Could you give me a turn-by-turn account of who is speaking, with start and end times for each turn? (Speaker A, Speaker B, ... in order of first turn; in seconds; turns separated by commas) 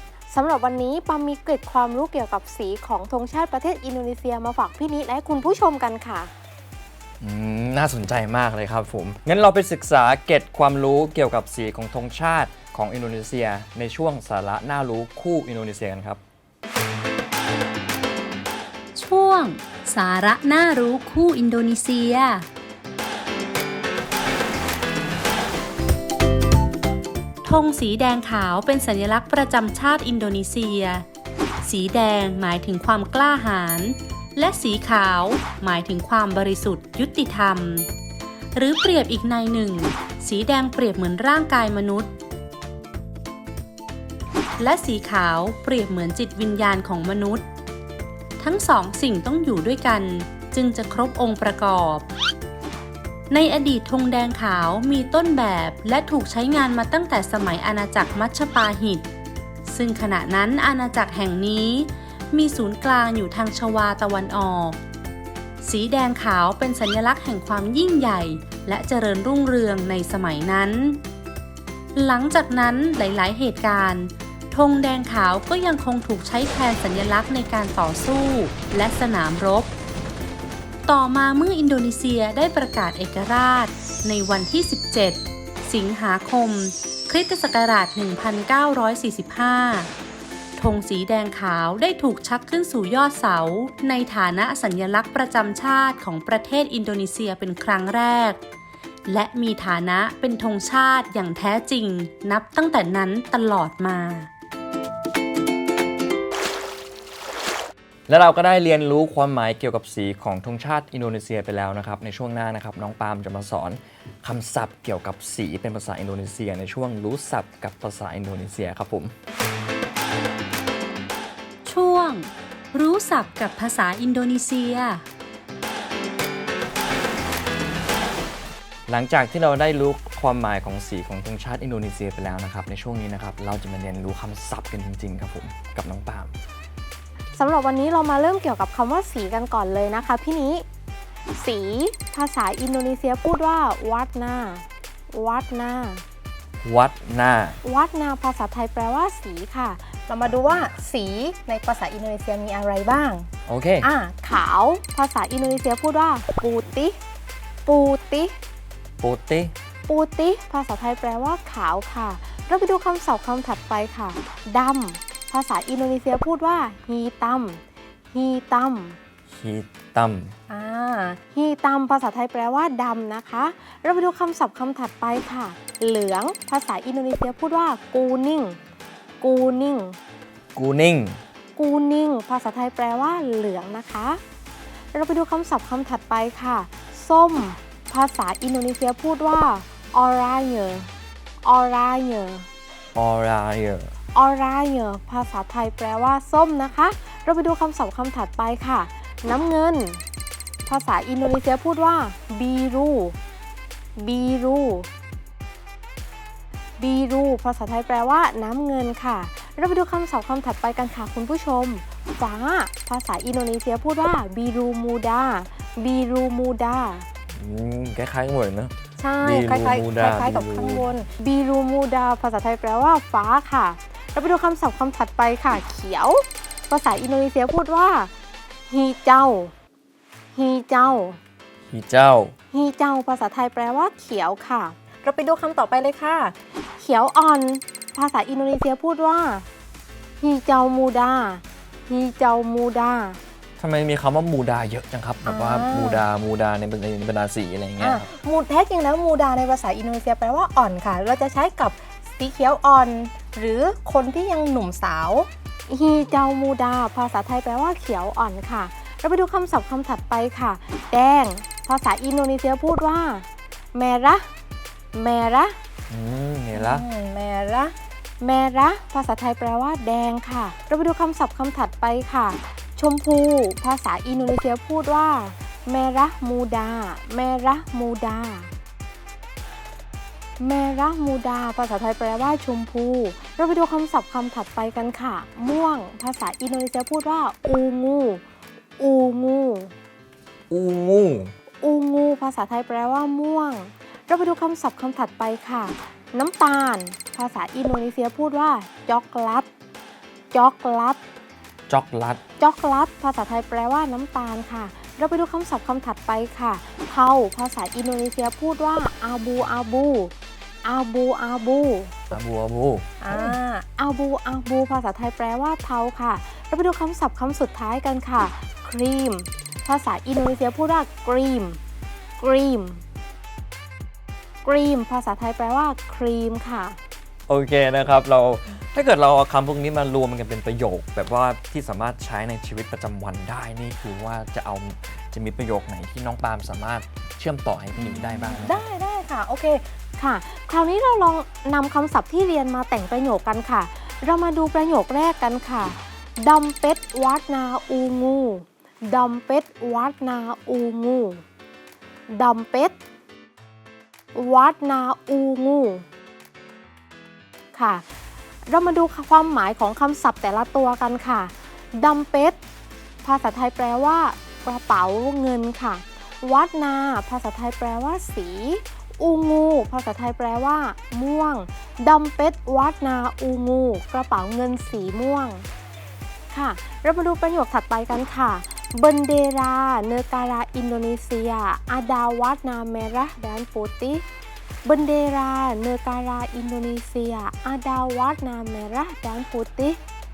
Speaker A: 0.3-6.3, Speaker B: 7.2-16.2, Speaker C: 19.0-22.5, Speaker C: 27.4-31.1, Speaker C: 31.6-37.9, Speaker C: 38.5-42.1, Speaker C: 44.6-47.5, Speaker C: 48.4-52.1, Speaker C: 53.3-59.1, Speaker C: 59.7-64.8, Speaker C: 65.6-71.0, Speaker C: 72.0-79.7, Speaker C: 80.9-89.9, Speaker C: 90.6-98.4, Speaker C: 99.1-104.3, Speaker B: 108.1-119.1, Speaker C: 121.7-125.0, Speaker B: 128.9-136.3, Speaker A: 137.3-140.6, Speaker A: 141.4-146.0, Speaker B: 146.6-147.6, Speaker A: 147.6-149.9, Speaker D: 150.1-153.1, Speaker B: 153.5-153.9, Speaker A: 153.8-157.0, Speaker A: 157.7-158.3, Speaker B: 159.0-159.5, Speaker A: 159.9-169.0, Speaker B: 169.3-170.3, Speaker D: 170.5-171.1, Speaker A: 171.2-178.6, Speaker A: 179.2-180.0, Speaker B: 180.6-181.2, Speaker A: 181.6-184.2, Speaker A: 184.9-190.9, Speaker A: 191.4-192.5, Speaker B: 192.9-193.9, Speaker A: 194.2-200.0, Speaker A: 200.7-203.2, Speaker A: 204.0-204.9, Speaker A: 206.8-217.1, Speaker B: 217.3-220.9, Speaker A: 219.0-219.9, Speaker A: 220.5-228.1, Speaker A: 228.7-229.5, Speaker A: 230.3-231.2, Speaker B: 231.7-232.3, Speaker A: 232.5-239.4, Speaker A: 240.2-243.2, Speaker B: 243.6-248.1, Speaker A: 245.5-246.0, Speaker D: 247.8-255.2, Speaker A: 252.8-254.0, Speaker A: 255.7-264.3, Speaker A: 264.9-265.6, Speaker B: 265.9-266.9, Speaker A: 266.6-278.5, Speaker A: 280.4-288.2, Speaker A: 288.8-289.7, Speaker B: 290.5-291.3, Speaker A: 291.6-299.5, Speaker A: 300.3-301.0, Speaker B: 301.7-302.2, Speaker A: 302.4-310.1, Speaker A: 310.6-311.9, Speaker B: 312.1-312.9, Speaker A: 313.1-321.6, Speaker A: 322.2-322.8, Speaker A: 324.4-326.8, Speaker B: 327.3-338.6, Speaker A: 338.4-351.2, Speaker A: 352.1-352.8, Speaker A: 354.1-355.9, Speaker A: 357.5-357.8, Speaker A: 358.5-362.4, Speaker A: 363.0-375.4, Speaker A: 376.3-384.0, Speaker A: 384.6-389.8